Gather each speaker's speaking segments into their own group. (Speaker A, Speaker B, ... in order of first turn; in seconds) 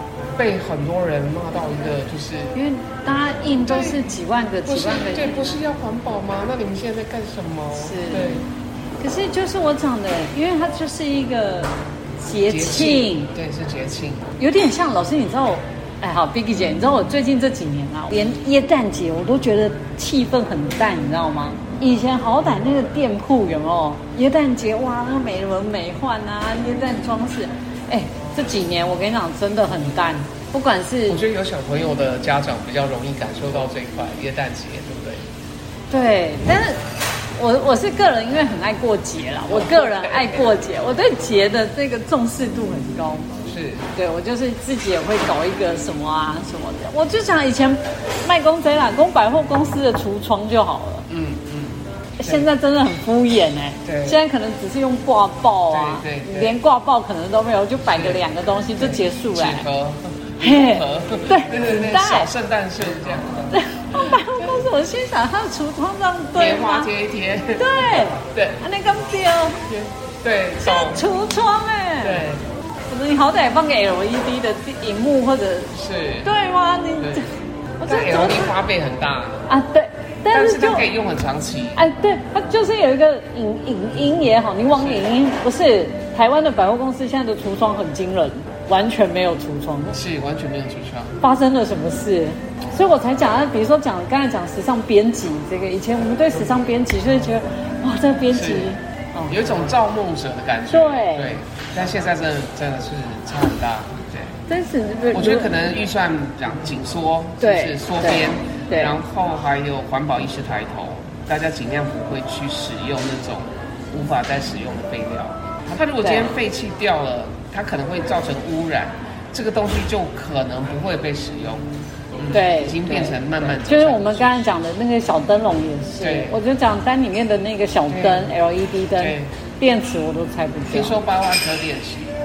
Speaker A: 0.4-2.5, 3.7-4.0, 4.7-8.5, 12.5-14.3, 31.1-35.2, 39.5-40.5, 43.5-43.9, 51.1-52.5, 53.9-54.2, 55.7-56.6, 57.9-58.2, 58.8-64.6, 66.3-68.6, 69.7-71.1, 72.0-72.4, 75.7-76.3, 77.0-77.3, 77.8-79.5, 80.3-81.8, 84.8-85.1, 89.9-91.2, 98.3-98.7, 99.3-104.3, 105.1-121.6, 122.2-124.6, 126.0-126.4, 127.9-128.3, 129.0-129.3, 130.7-132.2
Speaker B: 2.5-5.5, 7.8-8.4, 9.0-13.3, 14.4-31.2, 35.9-36.9, 37.4-43.3, 43.9-51.1, 52.2-59.7, 60.4-62.3, 63.5-66.9, 67.6-69.7, 70.6-72.2, 72.9-78.5, 79.5-80.9, 81.8-90.0, 91.2-99.4, 100.7-101.4, 104.5-105.5, 107.4-109.0, 116.0-116.3, 122.3-131.0